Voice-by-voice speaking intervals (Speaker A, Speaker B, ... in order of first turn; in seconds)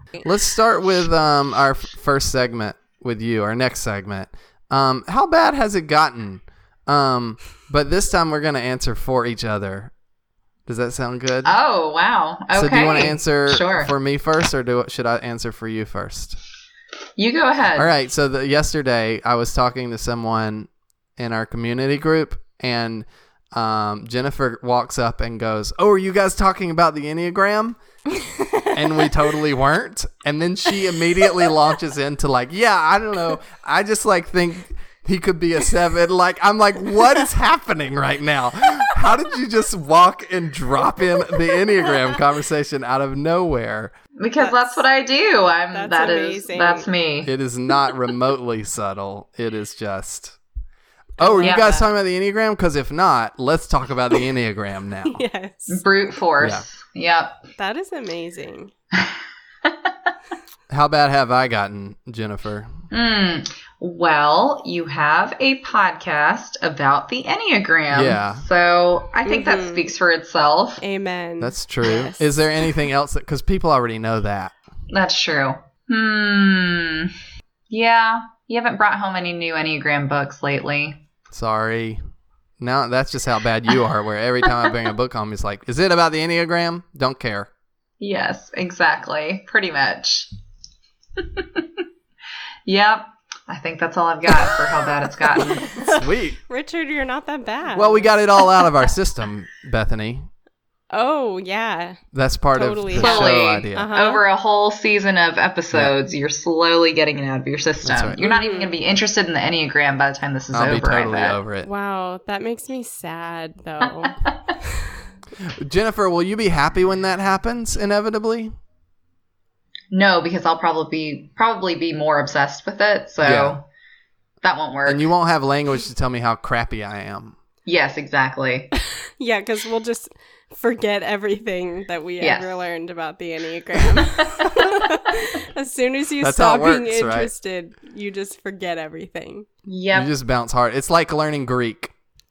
Speaker A: 0.2-9.9, 10.7-11.5, 12.5-16.4, 17.8-27.8, 28.7-43.9, 47.2-50.4, 51.2-55.2, 56.4-56.6, 60.7-62.7, 67.9-68.4, 71.4-74.5, 81.3-82.0, 82.6-87.5, 95.4-96.4, 97.7-100.3, 102.1-103.9, 107.8-108.2, 110.5-111.7, 115.4-118.5, 123.2-123.6, 124.8-127.3, 136.2-137.3, 139.9-141.9
Speaker B: 11.4-13.9, 17.2-17.9, 44.2-47.3, 51.4-51.7, 55.7-57.4, 58.9-59.7, 62.9-70.8, 74.9-77.1, 77.7-81.0, 88.0-90.3, 91.2-91.6, 92.7-95.8, 103.0-111.4, 119.9-123.6, 124.4-125.0, 127.7-128.7, 132.2-132.6, 139.7-140.1
Speaker C: 28.1-29.2, 31.2-31.5, 44.4-44.8, 45.7-46.9, 51.2-51.9, 55.1-55.8, 57.6-58.7, 69.2-69.9, 70.8-72.3, 95.6-98.1, 100.9-102.0, 102.5-104.2, 108.2-108.7, 111.6-114.2, 129.2-139.5